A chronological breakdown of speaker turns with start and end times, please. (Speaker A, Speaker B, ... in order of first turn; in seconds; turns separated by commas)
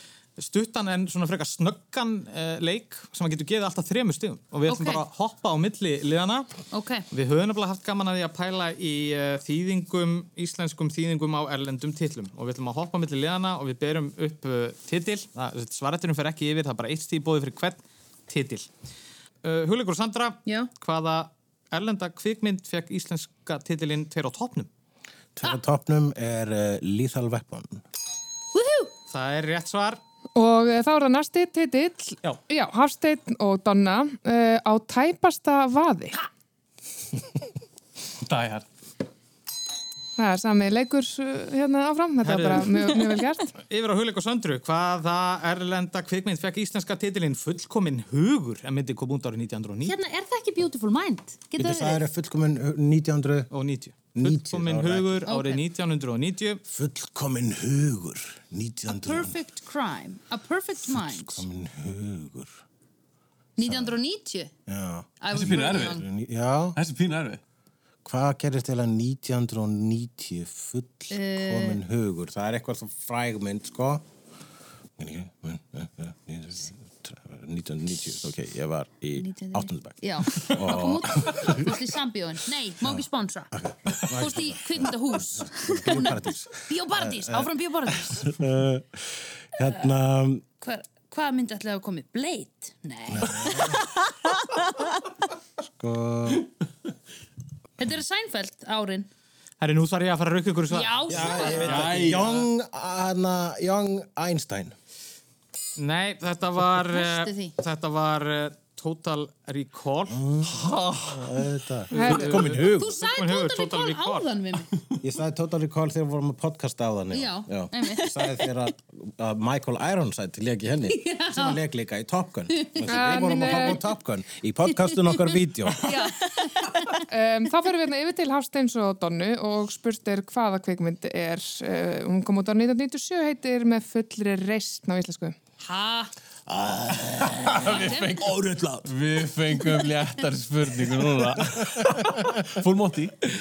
Speaker A: 0.4-6.5, Speaker B: 4.7-5.0, Speaker B: 6.7-7.0, Speaker A: 7.1-18.7, Speaker A: 19.4-24.7, Speaker C: 25.4-27.8, Speaker B: 28.5-28.9, Speaker A: 29.1-30.0, Speaker D: 30.4-36.2, Speaker E: 38.2-38.7, Speaker D: 40.2-43.5, Speaker A: 42.2-42.9, Speaker A: 43.6-50.0, Speaker B: 49.8-52.0, Speaker C: 51.6-53.5, Speaker A: 53.5-56.6, Speaker C: 54.1-55.3, Speaker B: 55.3-55.6, Speaker C: 56.7-59.4, Speaker B: 58.9-61.4, Speaker C: 60.9-62.6, Speaker B: 63.6-64.5, Speaker C: 63.6-64.0, Speaker C: 64.7-66.8, Speaker B: 65.2-66.0, Speaker E: 65.3-66.0, Speaker E: 66.8-67.4, Speaker C: 68.0-74.0, Speaker B: 71.1-71.8, Speaker C: 75.0-81.7, Speaker B: 79.2-83.5, Speaker C: 82.8-90.4, Speaker B: 84.1-88.5, Speaker B: 90.6-93.8, Speaker C: 93.1-93.8, Speaker C: 95.6-96.5, Speaker B: 97.8-99.1, Speaker A: 99.6-102.3, Speaker B: 100.7-101.8, Speaker C: 101.1-104.8, Speaker E: 101.4-102.3, Speaker A: 105.8-110.2, Speaker B: 106.9-107.5, Speaker C: 110.1-113.0, Speaker A: 111.9-114.3, Speaker D: 112.0-112.3, Speaker B: 112.6-114.7, Speaker C: 115.0-125.9, Speaker B: 117.1-118.4, Speaker B: 120.9-121.6, Speaker B: 122.5-123.8, Speaker D: 122.9-123.8, Speaker B: 125.8-126.8, Speaker D: 127.1-135.4, Speaker B: 135.6-136.1, Speaker C: 136.5-138.9, Speaker E: 137.2-143.2, Speaker B: 137.7-138.2